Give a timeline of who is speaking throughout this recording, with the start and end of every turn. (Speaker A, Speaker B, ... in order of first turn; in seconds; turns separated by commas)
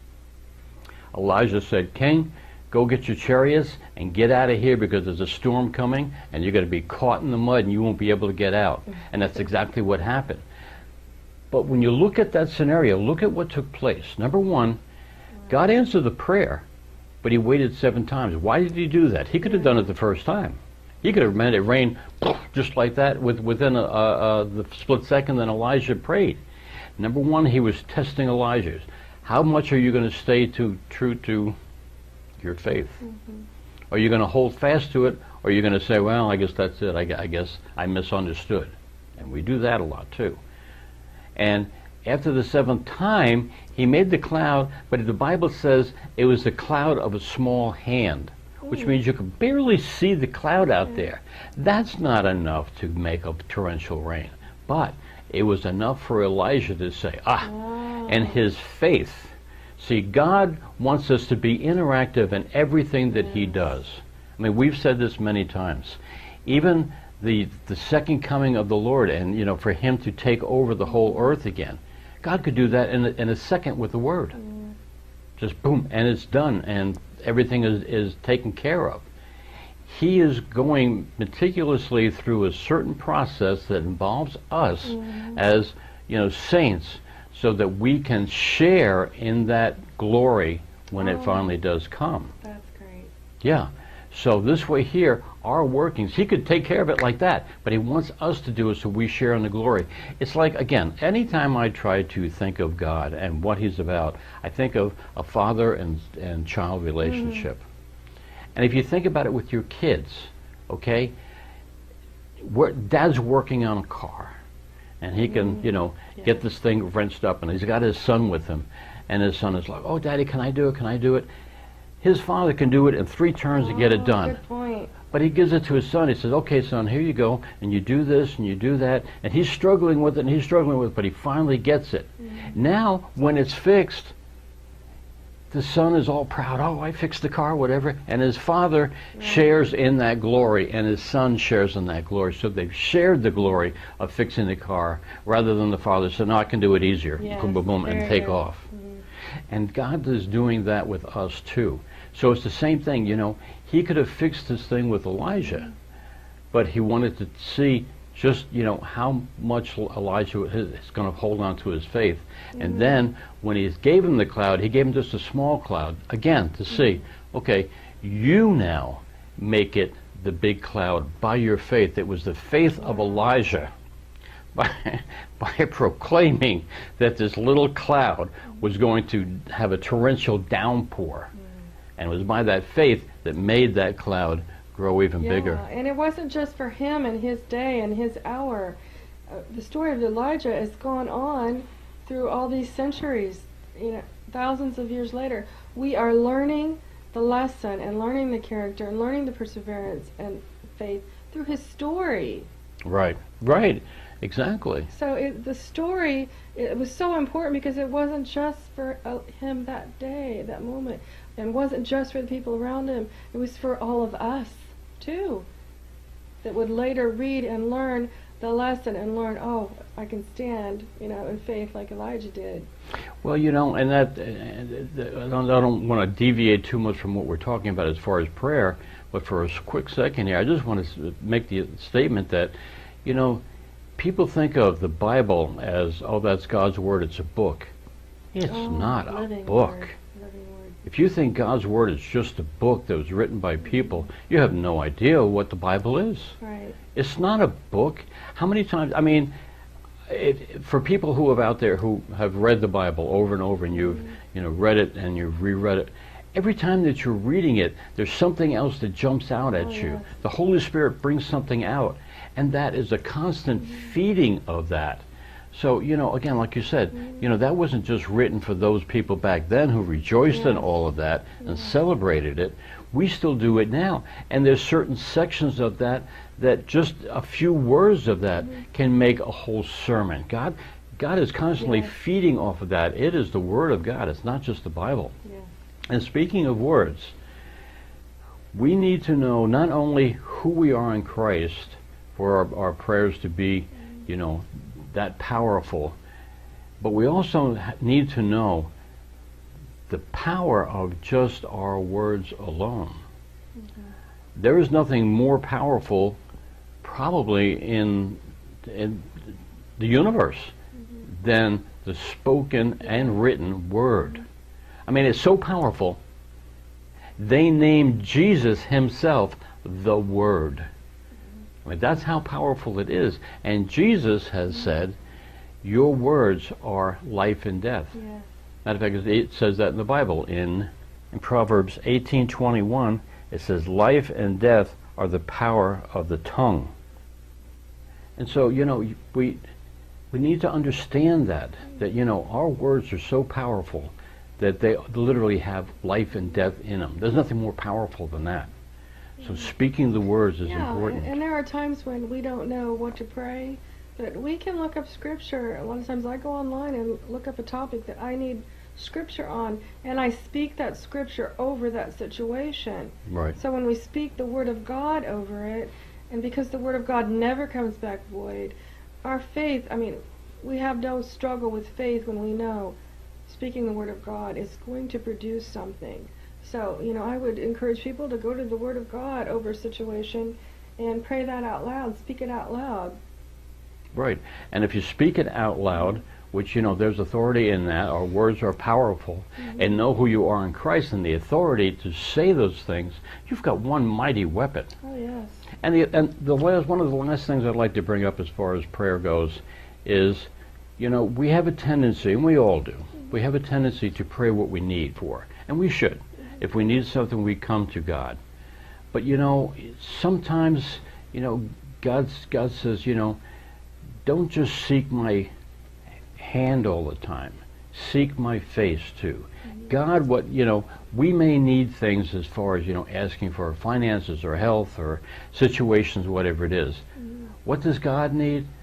Speaker A: 1.1-10.4, Speaker A: 11.5-14.8, Speaker A: 15.5-16.6, Speaker A: 17.2-26.4, Speaker A: 27.0-31.6, Speaker A: 32.4-33.0, Speaker B: 33.0-33.5, Speaker A: 33.9-40.4, Speaker A: 41.4-57.5, Speaker B: 48.6-48.9, Speaker B: 57.4-58.4, Speaker A: 58.0-74.4, Speaker B: 74.4-74.8, Speaker A: 75.4-79.0, Speaker A: 79.9-92.3, Speaker B: 84.9-85.4, Speaker B: 91.0-91.5, Speaker B: 92.4-93.1, Speaker A: 93.4-107.6, Speaker B: 107.0-107.5, Speaker A: 108.5-111.1, Speaker A: 112.4-114.3, Speaker A: 115.0-121.3, Speaker B: 115.3-115.7, Speaker A: 122.0-124.4, Speaker B: 123.5-124.9, Speaker A: 125.1-134.1, Speaker A: 135.5-148.7, Speaker B: 139.2-139.5, Speaker B: 147.2-149.0, Speaker A: 149.5-155.7, Speaker A: 156.5-173.7, Speaker B: 162.6-162.8, Speaker A: 174.6-181.3, Speaker A: 182.0-185.6, Speaker B: 185.2-188.8, Speaker B: 189.3-202.5, Speaker A: 202.8-204.9, Speaker B: 204.9-215.5, Speaker B: 216.4-222.7, Speaker A: 223.2-232.5, Speaker A: 233.0-233.4, Speaker A: 234.0-237.7, Speaker A: 238.3-239.9, Speaker B: 238.5-240.9, Speaker A: 240.8-246.4, Speaker B: 246.4-246.8, Speaker A: 246.9-249.3, Speaker A: 250.1-285.1, Speaker B: 253.8-254.2, Speaker B: 259.5-260.1, Speaker B: 270.3-270.7, Speaker B: 281.6-281.9, Speaker A: 285.9-287.1, Speaker A: 288.5-295.9, Speaker A: 296.8-298.7, Speaker A: 299.9-303.0, Speaker A: 304.4-306.2, Speaker A: 306.8-310.5, Speaker A: 311.1-314.2, Speaker A: 314.9-316.0, Speaker A: 317.2-320.7, Speaker A: 321.6-325.0, Speaker A: 325.6-327.9, Speaker B: 327.9-328.2, Speaker A: 328.6-336.7, Speaker A: 338.2-339.4, Speaker A: 340.1-348.5, Speaker A: 349.2-351.1, Speaker B: 350.5-372.8, Speaker A: 363.1-363.4, Speaker B: 373.3-383.0, Speaker A: 383.9-394.7, Speaker B: 394.8-395.4, Speaker A: 395.6-408.2, Speaker A: 408.9-413.2, Speaker A: 414.1-415.3, Speaker A: 416.2-426.8, Speaker A: 427.4-428.5